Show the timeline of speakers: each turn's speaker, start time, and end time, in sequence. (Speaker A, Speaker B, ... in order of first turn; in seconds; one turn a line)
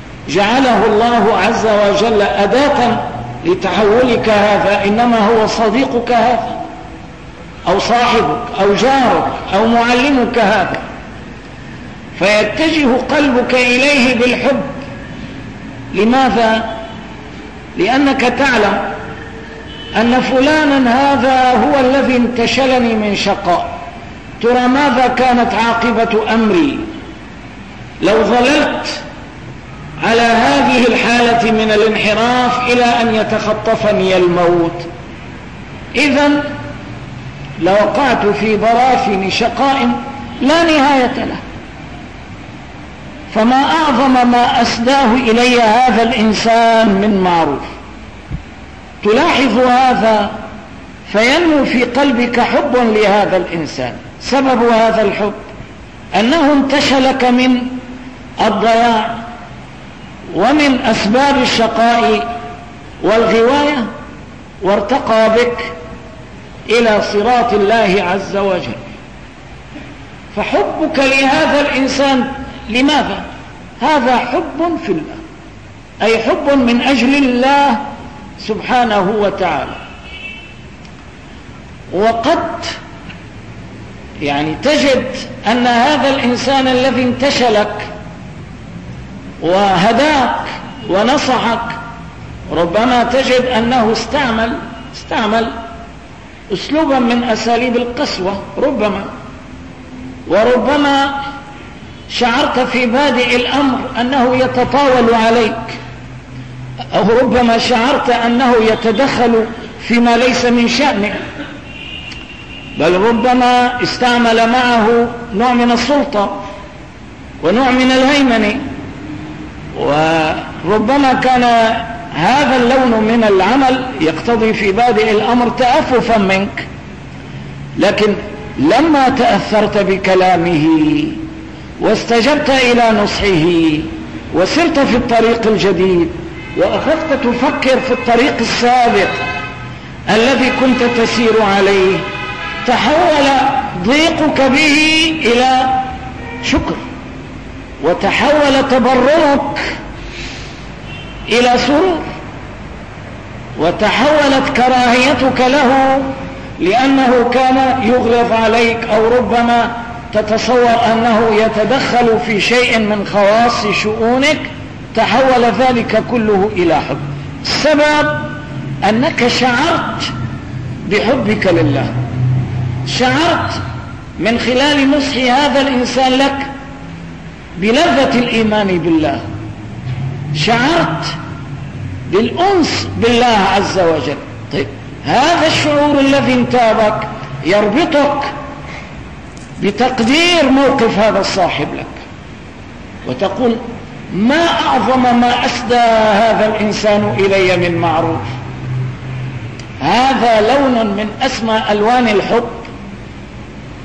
Speaker A: 0.3-6.6
Speaker A: 7.7-10.8
Speaker A: 12.2-14.8
Speaker A: 15.9-16.7
Speaker A: 17.8-18.9
Speaker A: 19.9-23.7
Speaker A: 24.4-26.8
Speaker A: 28.0-29.0
Speaker A: 30.0-34.9
Speaker A: 35.9-36.5
Speaker A: 37.6-41.4
Speaker A: 43.3-47.7
Speaker A: 49.0-50.3
Speaker A: 51.1-55.4
Speaker A: 56.1-57.8
Speaker A: 58.4-59.2
Speaker A: 60.3-62.2
Speaker A: 63.0-63.9
Speaker A: 64.6-65.7
Speaker A: 66.7-68.9
Speaker A: 70.3-73.2
Speaker A: 73.8-75.2
Speaker A: 76.0-77.8
Speaker A: 78.4-79.8
Speaker A: 81.9-82.8
Speaker A: 84.2-87.9
Speaker A: 89.4-91.8
Speaker A: 92.5-95.5
Speaker A: 96.5-99.1
Speaker A: 100.3-101.1
Speaker A: 102.1-105.8
Speaker A: 106.9-111.2
Speaker A: 112.8-116.3
Speaker A: 117.4-118.6
Speaker A: 119.7-126.7
Speaker A: 127.8-131.2
Speaker A: 131.8-139.2
Speaker A: 140.1-142.0
Speaker A: 142.6-145.9
Speaker A: 146.4-146.8
Speaker A: 147.8-149.7
Speaker A: 151.3-152.0
Speaker A: 153.6-168.3
Speaker A: 168.8-170.1
Speaker A: 170.8-171.9
Speaker A: 172.9-173.6
Speaker A: 174.2-176.5
Speaker A: 177.6-179.2
Speaker A: 180.3-181.2
Speaker A: 182.1-188.3
Speaker A: 189.6-192.0
Speaker A: 193.1-198.2
Speaker A: 199.8-202.7